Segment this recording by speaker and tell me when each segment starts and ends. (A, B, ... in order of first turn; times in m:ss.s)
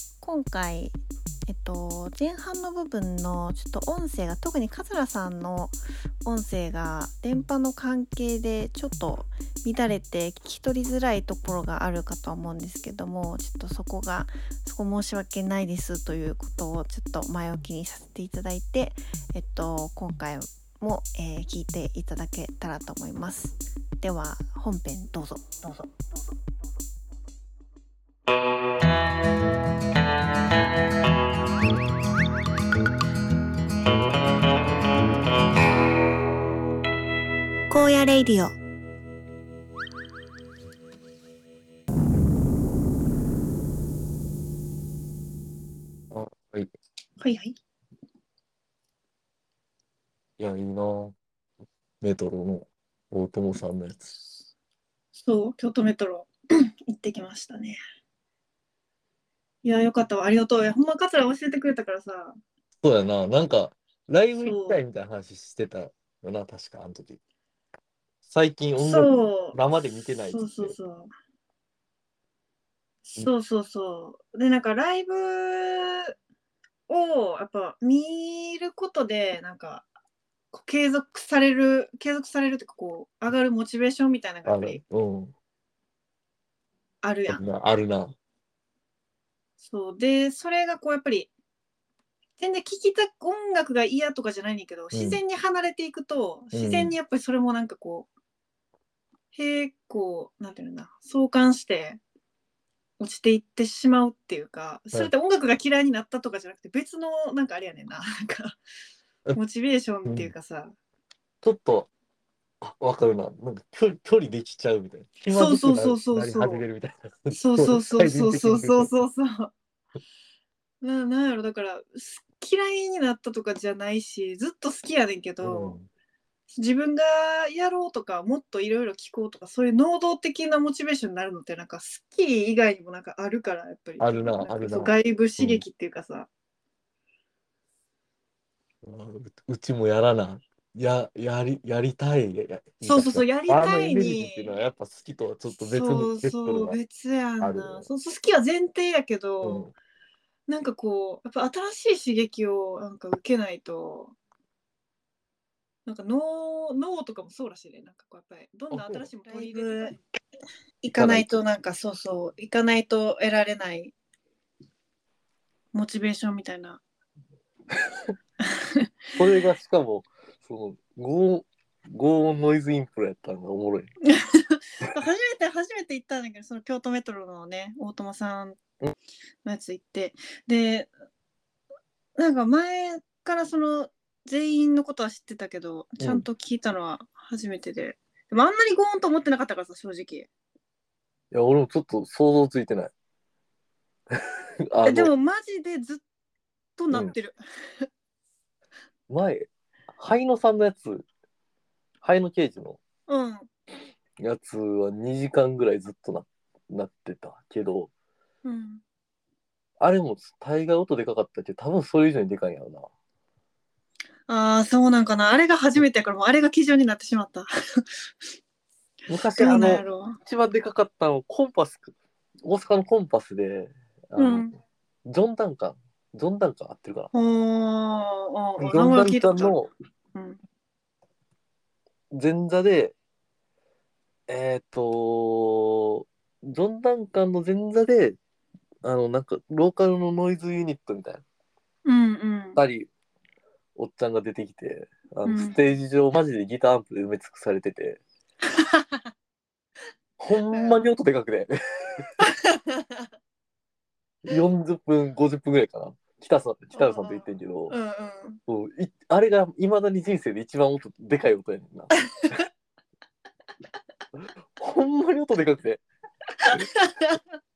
0:00.2-0:01.0 A
0:01.5-0:25.9 A
0:37.7-0:38.6 A
0:46.1-0:46.7 B
0:47.2-0:47.5 C
0:50.4-0:51.2 B
0:52.0-0:54.1 B
0:55.1-0:56.3 C
0:56.9-0:57.8 C
0:59.6-1:02.4 C
1:02.8-1:07.2 B
1:04.4-1:04.8 C
1:08.3-1:10.7 B
1:08.8-1:09.6 C
1:10.3-1:11.1 C
1:13.1-1:16.1 C
1:16.9-1:19.9 C
1:20.5-1:24.8 C
1:24.4-1:25.3 B
1:27.0-1:27.4 C
1:27.3-1:28.1 B
1:29.6-1:31.3 C
1:32.4-1:38.1 C
1:34.9-1:35.2 B
1:36.5-1:36.9 B
1:39.3-1:42.0 C
1:43.0-1:48.6 C
1:49.3-1:50.7 C
1:50.0-1:50.3 B
1:51.4-1:51.9 B
1:52.6-1:58.9 B
1:55.3-1:56.6 C
1:57.3-1:59.5 C
2:00.8-2:05.8 C
2:05.4-2:05.9 B
2:06.5-2:16.3 C
2:14.0-2:15.6 B
2:18.8-2:26.8 B
2:22.8-2:24.6 C
2:25.5-2:29.7 C
2:27.4-2:27.9 B
2:29.4-2:29.7 B
2:30.5-2:34.2 C
2:35.8-2:39.9 C
2:38.7-2:39.1 B
2:40.8-2:43.9 C
2:40.9-2:41.4 B
2:45.7-2:46.8 C
2:48.4-2:48.8 C
2:49.2-2:53.9 B
2:54.0-2:58.6 C
2:59.4-3:00.9 C
3:02.2-3:10.3 C
3:06.0-3:06.2 B
3:11.3-3:12.9 B
3:14.7-3:15.1 B
3:14.8-3:16.0 C
3:16.8-3:17.8 C
3:19.1-3:21.0 B
3:22.0-3:22.8 B
3:23.1-3:23.5 C
3:24.2-3:27.9 B
3:28.4-3:28.8 C
3:29.8-3:32.9 B
3:34.3-3:37.5 C
3:39.1-3:44.4 B
3:39.4-3:40.2 C
3:44.2-3:44.5 C
3:45.0-3:47.1 B
3:47.1-3:49.6 C
3:48.6-3:49.7 B
3:52.1-3:52.9 B
3:54.3-3:58.2 B
3:58.8-4:01.2 B
4:01.8-4:02.6 C
4:02.6-4:02.9 B
4:03.8-4:08.0 B
4:05.2-4:05.6 C
4:08.6-4:09.0 C
4:10.2-4:12.2 B
4:10.5-4:10.8 C
4:12.2-4:13.1 C
4:14.2-4:17.7 B
4:16.7-4:18.4 C
4:18.5-4:22.4 B
4:24.6-4:25.8 B
4:26.4-4:27.2 C